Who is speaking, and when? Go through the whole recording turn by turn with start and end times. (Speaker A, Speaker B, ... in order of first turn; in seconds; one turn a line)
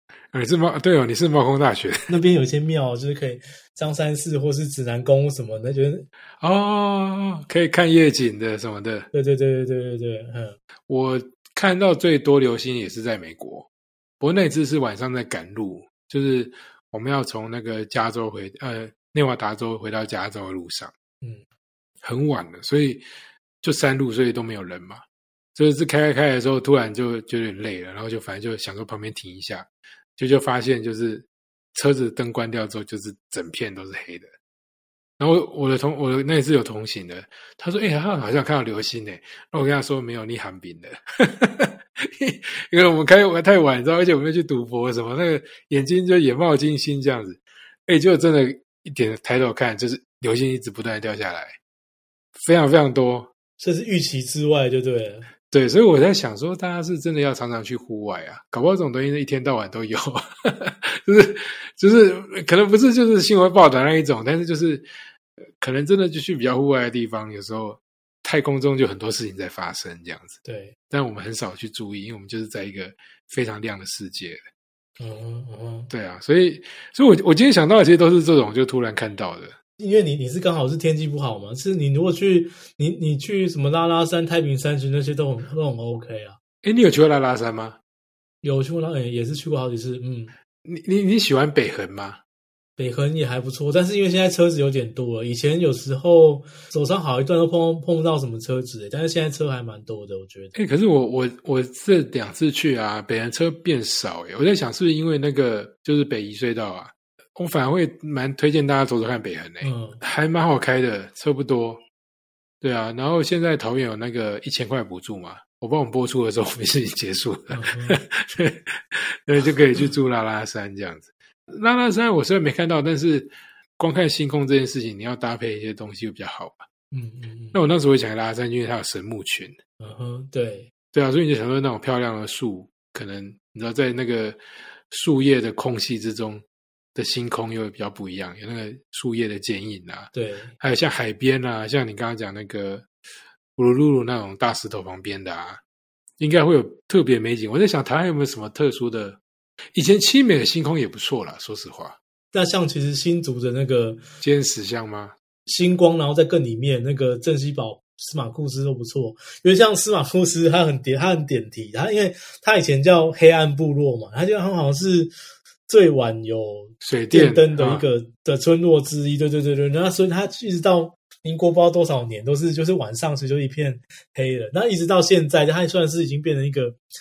Speaker A: 0.3-2.1
Speaker B: 2.1-6.1
Speaker A: 6.4-9.1
Speaker B: 9.1-10.6
Speaker A: 10.9-13.7
Speaker A: 14.2-20.9
Speaker A: 22.0-23.0
Speaker A: 23.6-25.0
Speaker A: 25.6-34.3
Speaker A: 35.2-51.6
Speaker A: 52.4-53.3
Speaker B: 53.6-55.3
Speaker A: 55.5-64.9
Speaker A: 65.6-70.4
Speaker B: 70.5-70.8
Speaker A: 70.9-74.4
Speaker B: 75.0-75.9
Speaker A: 75.9-79.6
Speaker B: 79.8-86.4
Speaker A: 86.6-87.8
Speaker B: 88.4-90.3
Speaker A: 90.7-92.2
Speaker B: 92.8-100.5
Speaker A: 100.5-111.8
Speaker B: 109.6-110.0
Speaker A: 112.6-126.7
Speaker B: 117.5-118.0
Speaker B: 126.9-127.6
Speaker A: 127.5-129.6
Speaker B: 129.8-130.7
Speaker A: 130.9-134.4
Speaker A: 134.9-136.4
Speaker A: 136.9-142.9
Speaker B: 140.1-140.5
Speaker A: 143.6-145.6
Speaker A: 146.2-149.2
Speaker A: 149.7-152.0
Speaker B: 152.3-154.0
Speaker A: 154.2-155.2
Speaker B: 155.5-165.1
Speaker B: 165.7-176.8
Speaker A: 166.8-167.9